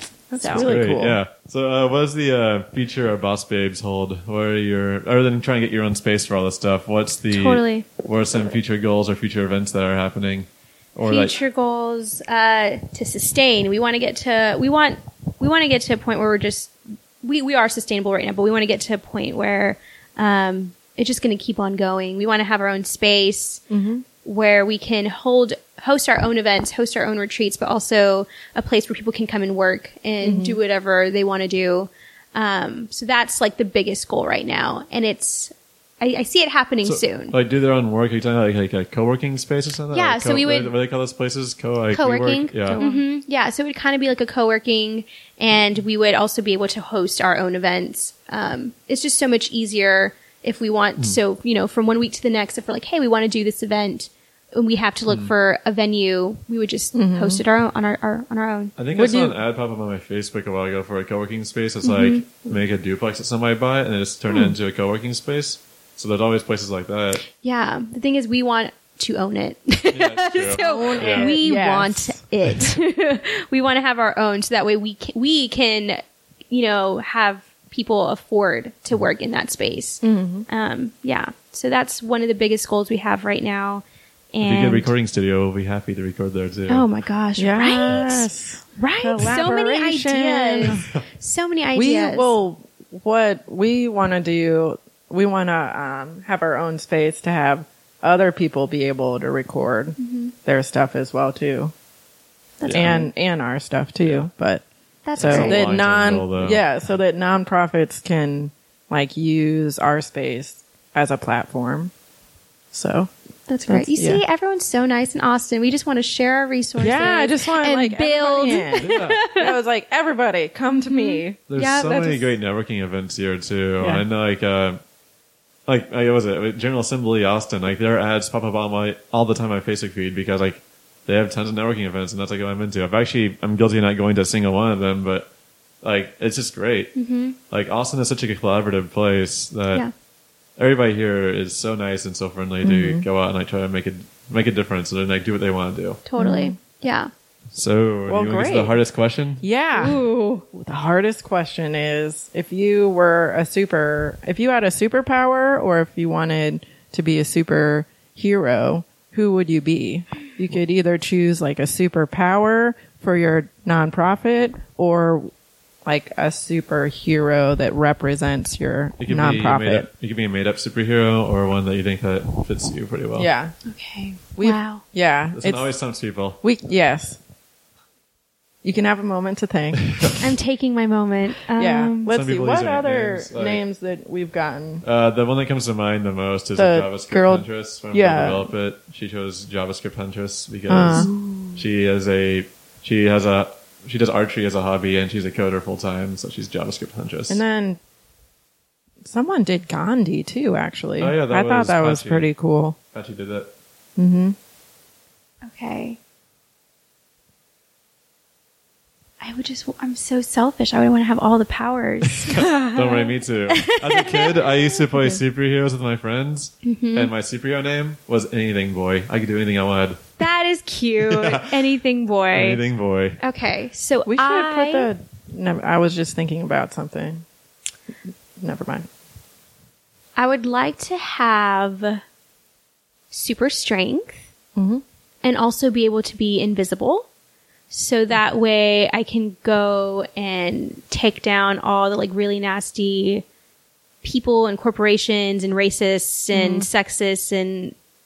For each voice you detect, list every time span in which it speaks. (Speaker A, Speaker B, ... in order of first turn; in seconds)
Speaker A: 0.3-1.2, 23.7-24.1, 30.2-30.6, 42.6-43.0, 56.9-57.4, 58.9-59.4, 70.6-72.2, 80.0-80.5, 87.4-90.8, 91.8-101.7, 102.7-104.7, 105.2-111.9, 112.7-113.1, 113.7-114.2, 116.8-122.2, 142.6-143.1, 146.2-146.6, 148.1-148.8, 149.4-165.3, 165.8-169.9, 173.2-173.5, 174.4-175.7, 176.4-177.2, 178.6-180.2, 181.6-184.8, 186.6-188.5, 190.7-191.1, 197.3-197.8, 199.0-202.8, 204.0-204.3, 224.1-227.3, 228.4-228.9, 234.6-234.8, 246.3-246.7
Speaker B: 0.3-0.7, 7.3-7.9, 11.1-23.6, 24.2-37.4, 39.9-40.7, 41.9-58.7, 61.8-62.2, 67.3-84.9, 86.7-92.3, 100.0-100.3, 102.6-103.1, 105.0-105.6, 113.5-119.5, 120.7-122.2, 137.0-137.3, 146.1-147.1, 149.8-150.4, 173.7-174.8, 180.2-182.1, 190.9-191.6, 205.4-206.0, 209.2-214.9, 216.6-217.1, 220.2-222.7, 223.2-224.9, 230.2-232.0, 233.1-234.3, 235.2-237.1, 237.7-243.2, 244.0-247.8
Speaker C: 0.5-11.3, 36.9-42.8, 55.1-55.3, 58.8-67.2, 69.9-71.4, 72.5-72.7, 84.4-86.9, 102.7-103.0, 105.2-106.7, 118.8-119.2, 121.5-124.8, 125.7-135.3, 135.8-136.9, 137.5-139.9, 140.6-146.0, 147.5-149.4, 169.0-173.3, 175.3-176.4, 179.9-180.2, 182.1-183.6, 184.8-197.4, 201.0-202.3, 202.9-203.5, 212.3-220.2, 221.0-221.7, 222.3-223.2